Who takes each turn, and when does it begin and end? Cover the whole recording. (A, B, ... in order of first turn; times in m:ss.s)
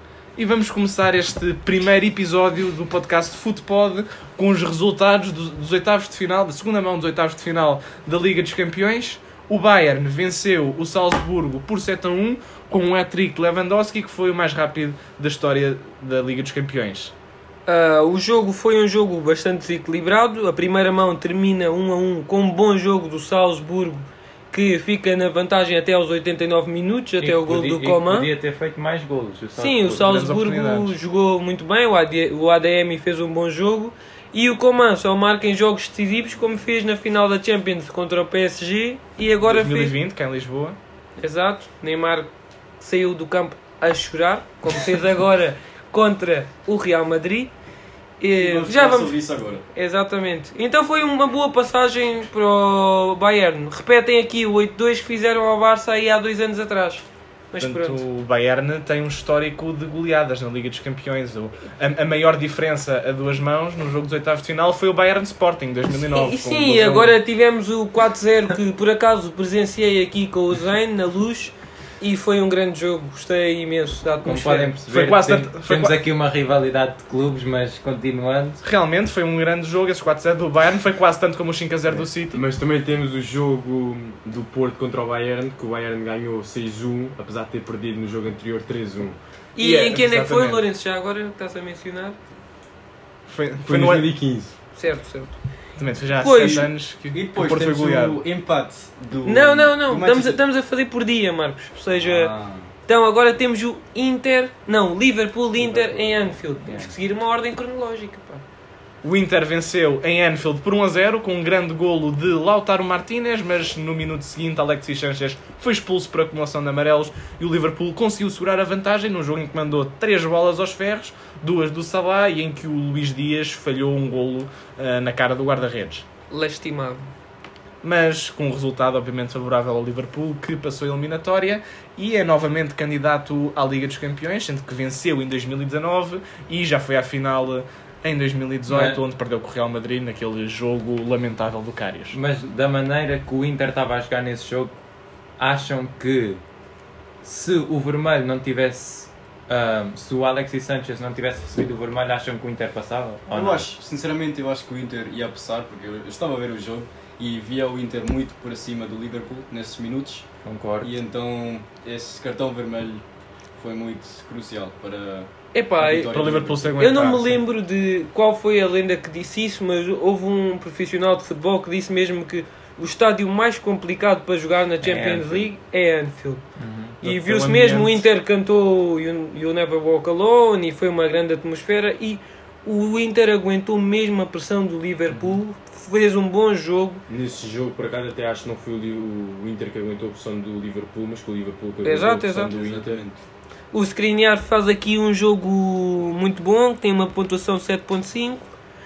0:00.4-0:17.1 A
0:17.7-0:28.3 B
0:27.2-0:30.0 C
0:29.6-0:40.0 B
0:29.9-0:31.0 A
0:39.4-0:40.8 A
0:41.2-0:47.5 B
0:48.2-0:58.0 B
0:48.3-0:49.6 D
0:57.6-1:07.2 A
1:05.9-1:14.8 B
1:14.2-1:18.6 C
1:14.9-1:16.0 A
1:18.6-1:22.4 A
1:21.9-1:29.2 E
1:29.6-1:32.2 B
1:29.6-1:30.6 A
1:33.3-1:34.1 A
1:33.6-1:34.5 E
1:34.7-1:35.4 B
1:35.8-1:38.2 A
1:36.2-1:36.7 B
1:36.4-1:40.4 D
1:39.2-1:42.3 B
1:41.9-1:42.7 D
1:42.9-1:48.4 B
1:46.1-1:46.9 C
1:49.0-2:06.1 A
2:06.3-2:07.1 B
2:07.8-2:22.2 A
2:18.7-2:19.0 C
2:22.1-2:24.8 C
2:25.4-2:26.4 C
2:27.2-2:33.7 C
2:33.3-2:40.3 D
2:40.4-2:41.0 C
2:40.8-2:43.0 D
2:43.6-2:46.8 D
2:45.5-2:56.4 B
2:46.0-2:47.4 A
2:54.8-2:55.5 C
2:56.6-2:57.0 C
2:57.0-2:58.1 A
2:57.0-3:07.0 B
3:05.1-3:05.4 C
3:07.1-3:13.0 E
3:11.8-3:12.5 B
3:12.4-3:13.2 D
3:13.7-3:18.5 B